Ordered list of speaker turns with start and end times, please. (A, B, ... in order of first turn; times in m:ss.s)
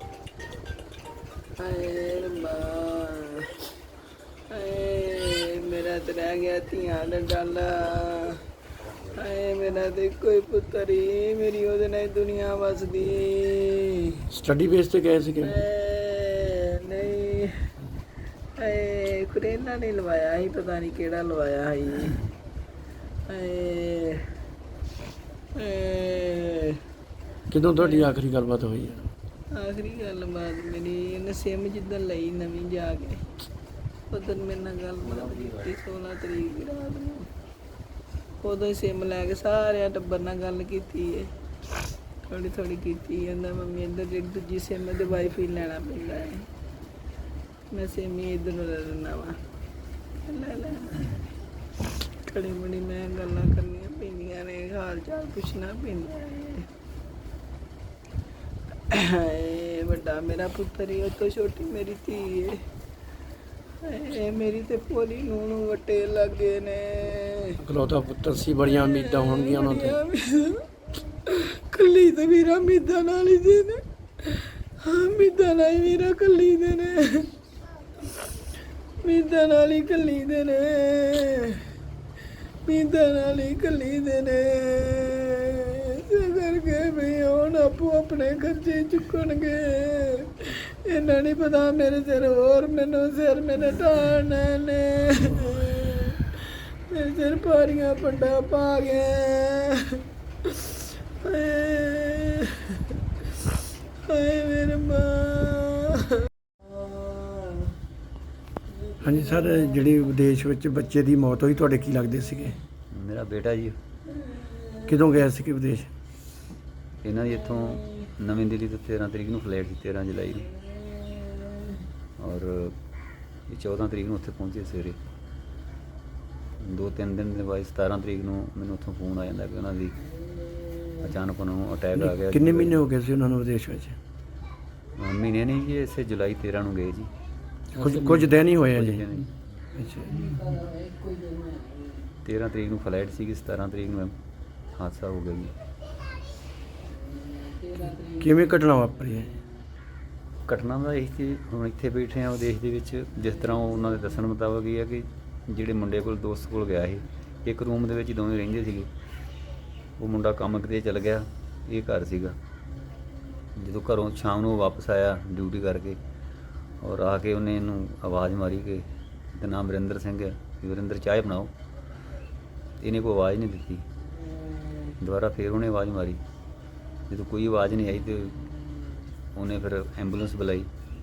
0:01.6-0:03.5 A
0:04.5-0:08.4 A
0:09.1-0:14.2 A
0:14.3-0:15.6 B
0:15.4-0:17.6 A
0:18.6-0:22.2 A
0:23.3-0:24.3 A
0:25.6-0:26.8 A
0:27.5-0:29.1 B
0:29.5-0:33.2 A
0:34.1-0:37.3 A
0:38.4-0:41.3 A
0:42.2-0:46.5 A
0:47.7-0:49.4 A
0:50.2-0:51.1 A
0:52.2-0:56.6 A
0:58.9-1:02.6 A
1:03.8-1:07.5 A
1:07.6-1:10.0 B
1:08.8-1:10.6 A
1:11.2-1:17.3 A
1:19.0-1:21.6 A
1:22.6-1:42.8 A
1:44.0-1:47.7 A
1:49.0-1:52.6 B
1:52.9-1:53.7 C
1:54.8-1:55.9 B
1:57.0-2:00.5 C
2:02.2-2:02.7 C
2:03.5-2:05.0 C
2:06.6-2:10.0 C
2:11.0-2:12.8 C
2:12.0-2:14.0 B
2:15.0-2:17.1 C
2:17.7-2:19.0 B
2:17.8-2:19.3 C
2:19.7-2:20.2 B
2:20.6-2:21.8 A
2:22.2-2:24.1 C
2:24.7-2:25.5 C
2:28.1-2:29.3 B
2:30.5-2:38.9 C
2:40.0-2:42.4 C
2:43.6-2:46.0 C
2:46.8-2:51.5 C
2:52.8-2:53.8 C
2:55.0-2:56.2 C
2:57.1-2:58.4 C
2:59.3-3:00.7 C